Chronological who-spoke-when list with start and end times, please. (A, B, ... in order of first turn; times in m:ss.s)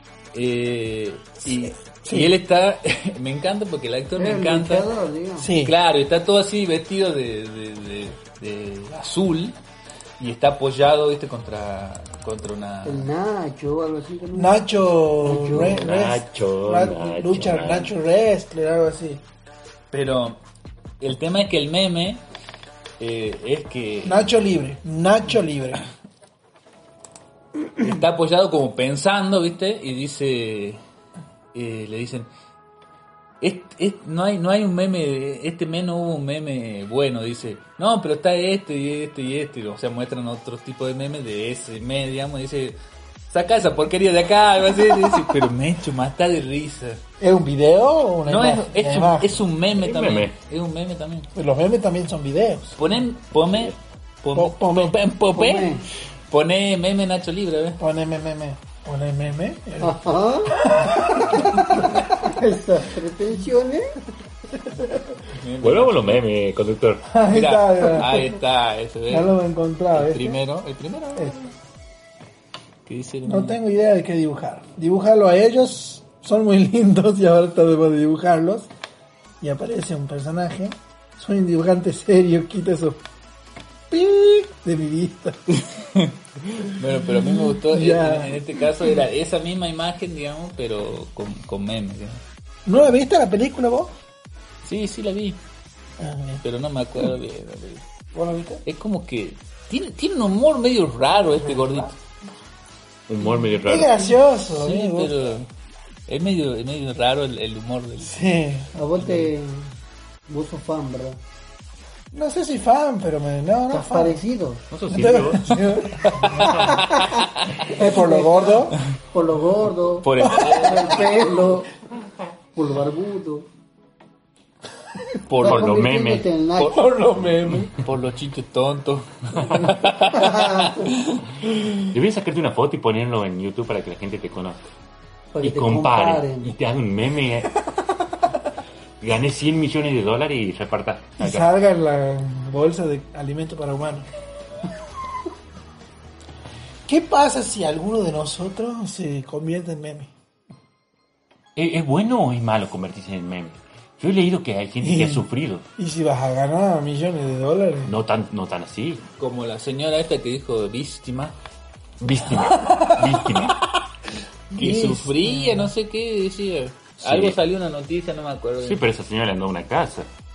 0:00.3-0:04.9 A
0:01.5-0:02.3 B
0:04.2-0:05.5 C
0:05.4-0:05.8 B
0:05.6-0:09.6 A
0:10.2-0:13.1 A
0:12.8-0:14.6 C
0:14.4-0:19.2 B
0:15.2-0:15.9 C
0:15.5-0:17.9 D
0:19.9-0:20.4 A
0:21.0-0:22.2 A
0:23.0-0:24.3 A
0:24.0-0:25.8 B
0:27.8-0:30.8 A
0:31.5-0:32.3 A
0:33.4-0:42.8 A
0:43.3-0:47.0 A
0:47.2-0:49.4 B
0:48.3-0:51.3 A
0:49.8-0:50.3 D
0:51.4-0:52.8 B
0:52.8-0:57.8 A
0:54.3-0:55.0 B
0:55.3-0:55.8 C
0:57.8-1:00.0 B
0:59.8-1:00.8 C
1:00.5-1:02.0 B
1:02.1-1:04.0 C
1:05.4-1:06.3 A
1:05.6-1:07.1 D
1:07.1-1:08.4 B
1:07.3-1:09.3 A
1:09.1-1:10.4 B
1:09.9-1:11.5 A
1:12.9-1:13.6 A
1:13.2-1:18.7 B
1:19.4-1:23.0 B
1:23.9-1:25.4 B
1:25.5-1:32.2 A
1:27.2-1:28.6 B
1:32.7-1:33.9 B
1:34.6-1:35.4 A
1:36.0-1:36.4 B
1:36.4-1:37.9 A
1:38.1-1:38.6 B
1:38.7-1:42.0 A
1:43.1-1:44.1 D
1:43.6-1:45.2 B
1:44.5-1:45.5 A
1:46.1-1:48.2 A
1:48.0-1:48.7 B
1:48.7-1:49.7 C
1:50.3-1:51.2 C
1:52.1-1:54.2 B
1:53.7-1:54.6 C
1:54.7-1:55.6 D
1:54.9-1:57.1 B
1:56.0-1:57.5 A
1:56.4-1:56.8 D
1:57.6-1:58.8 B
1:57.8-2:01.7 C
2:00.0-2:01.0 A
2:00.2-2:00.5 B
2:02.6-2:03.5 C
2:05.3-2:05.8 A
2:05.4-2:06.3 D
2:05.4-2:06.8 C
2:06.6-2:07.7 B
2:07.8-2:11.2 A
2:10.1-2:10.8 C
2:11.8-2:14.7 D
2:15.3-2:16.5 C
2:15.4-2:17.6 D
2:19.0-2:21.5 D
2:21.2-2:24.1 B
2:26.9-2:30.1 B
2:31.6-2:35.6 D
2:34.8-2:37.9 B
2:37.8-2:39.0 D
2:39.2-2:41.4 A
2:42.0-2:43.6 D
2:42.6-2:43.1 B
2:44.5-2:45.7 B
2:44.6-2:48.9 A
2:47.0-2:47.4 D
2:48.6-2:50.1 D